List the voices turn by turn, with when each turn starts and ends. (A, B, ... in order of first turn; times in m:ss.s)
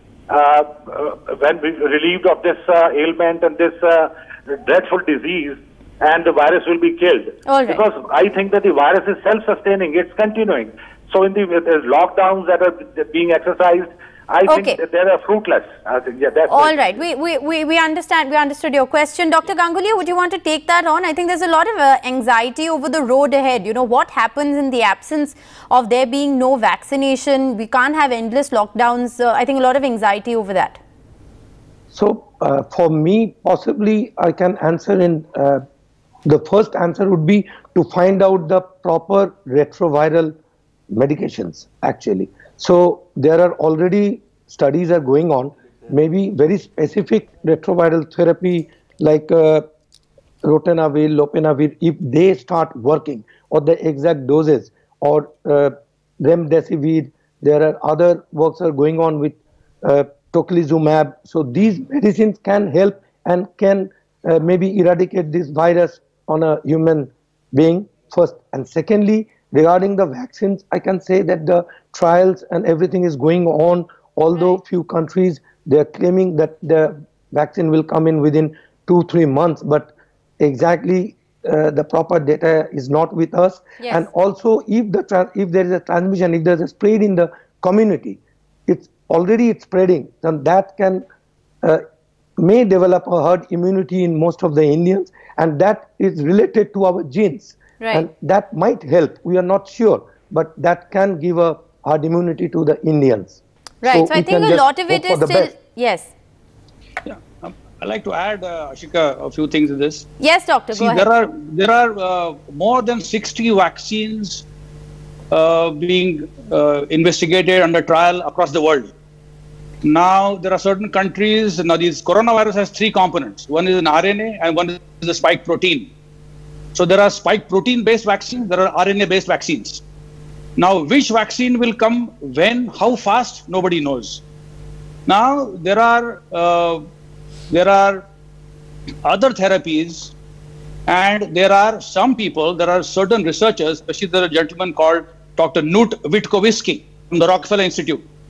0:00.3-0:16.9 A
0:07.5-0:07.8 B
0:14.5-0:14.8 B
0:16.5-0:30.8 B
0:31.9-0:35.6 C
0:36.2-0:40.4 C
0:40.9-0:49.7 C
0:50.4-1:31.0 C
1:23.8-1:24.0 B
1:32.4-1:45.5 C
1:37.8-1:38.0 B
1:43.8-1:46.1 B
1:47.0-1:50.1 D
1:50.2-1:51.1 B
1:50.7-1:54.4 D
1:55.3-1:58.9 D
1:59.8-2:05.9 D
2:06.7-2:09.8 D
2:10.6-2:14.2 D
2:15.1-2:16.8 D
2:17.5-2:18.0 D
2:19.0-2:20.1 D
2:20.9-2:28.0 D